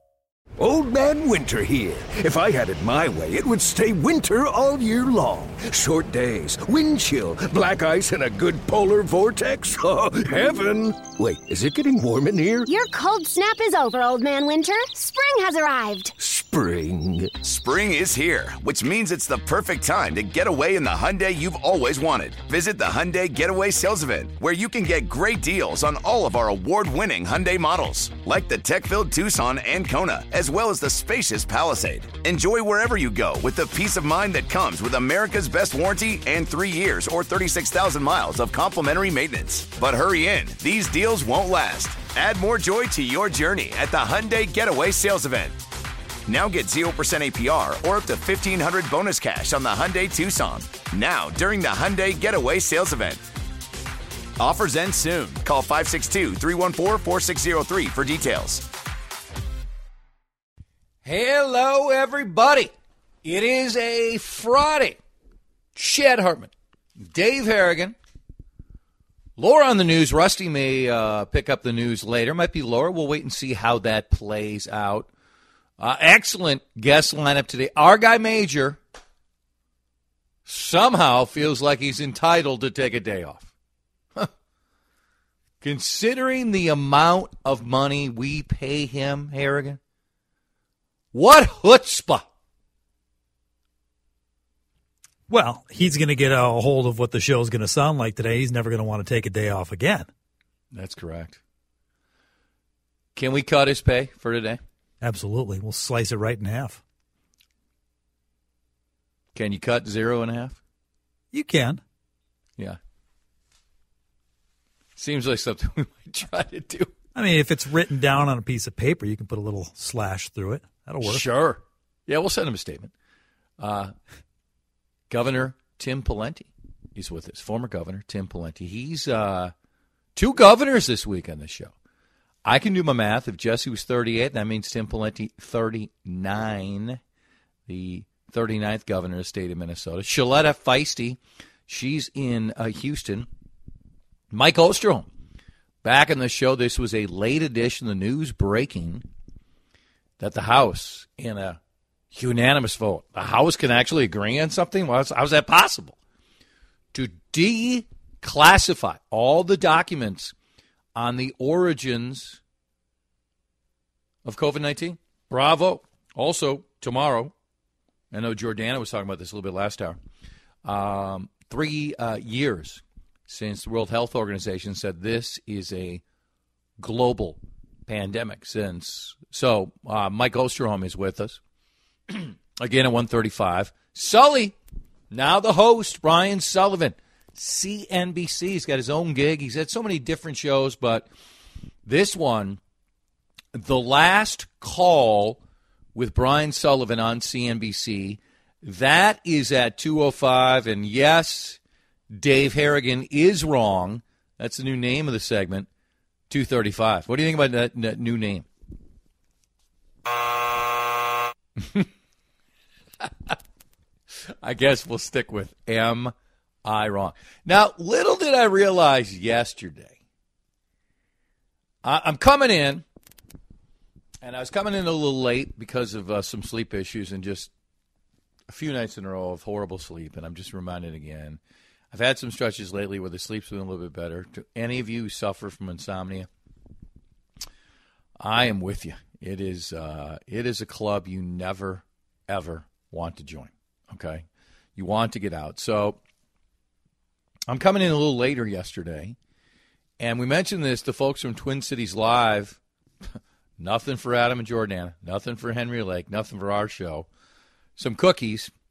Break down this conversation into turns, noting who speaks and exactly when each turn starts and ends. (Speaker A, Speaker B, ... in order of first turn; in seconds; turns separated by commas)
Speaker A: 0.6-12.7, Speaker B: 12.7-16.1, Speaker A: 16.2-17.4, Speaker C: 17.4-45.5, Speaker C: 46.3-53.2, Speaker C: 54.4-58.6, Speaker D: 61.0-62.7, Speaker D: 63.2-65.0, Speaker D: 65.7-67.9, Speaker D: 69.4-75.1, Speaker D: 75.8-78.8, Speaker D: 80.5-83.5, Speaker D: 85.6-89.8, Speaker D: 91.1-92.3, Speaker E: 95.3-100.1, Speaker D: 100.7-101.4, Speaker D: 103.1-104.6, Speaker E: 105.0-106.8, Speaker D: 109.3-110.6, Speaker E: 111.3-111.8, Speaker D: 115.0-116.9, Speaker E: 117.1-121.2, Speaker D: 121.0-122.9, Speaker D: 123.6-123.9, Speaker D: 125.1-129.5, Speaker D: 130.2-131.7, Speaker D: 132.4-137.0, Speaker D: 137.7-143.3, Speaker D: 144.3-145.1, Speaker D: 145.8-149.0, Speaker D: 150.2-151.6, Speaker D: 152.1-155.9, Speaker D: 156.9-160.3, Speaker D: 160.9-162.4, Speaker D: 164.2-167.3, Speaker D: 168.1-170.0, Speaker D: 170.6-176.0, Speaker D: 176.8-181.4, Speaker D: 182.1-184.6, Speaker D: 185.1-191.1, Speaker D: 191.8-192.6, Speaker D: 193.5-195.4, Speaker D: 195.9-201.6, Speaker D: 202.1-205.7, Speaker D: 206.3-208.5, Speaker D: 211.6-211.9, Speaker D: 213.0-213.3, Speaker D: 214.4-216.1, Speaker D: 216.6-219.9, Speaker D: 221.8-222.8, Speaker D: 224.2-227.5, Speaker D: 228.5-231.4, Speaker D: 231.9-236.3, Speaker D: 238.2-244.2, Speaker D: 244.8-246.0, Speaker D: 247.5-249.1, Speaker D: 250.0-252.6, Speaker D: 253.6-257.1, Speaker D: 257.8-258.5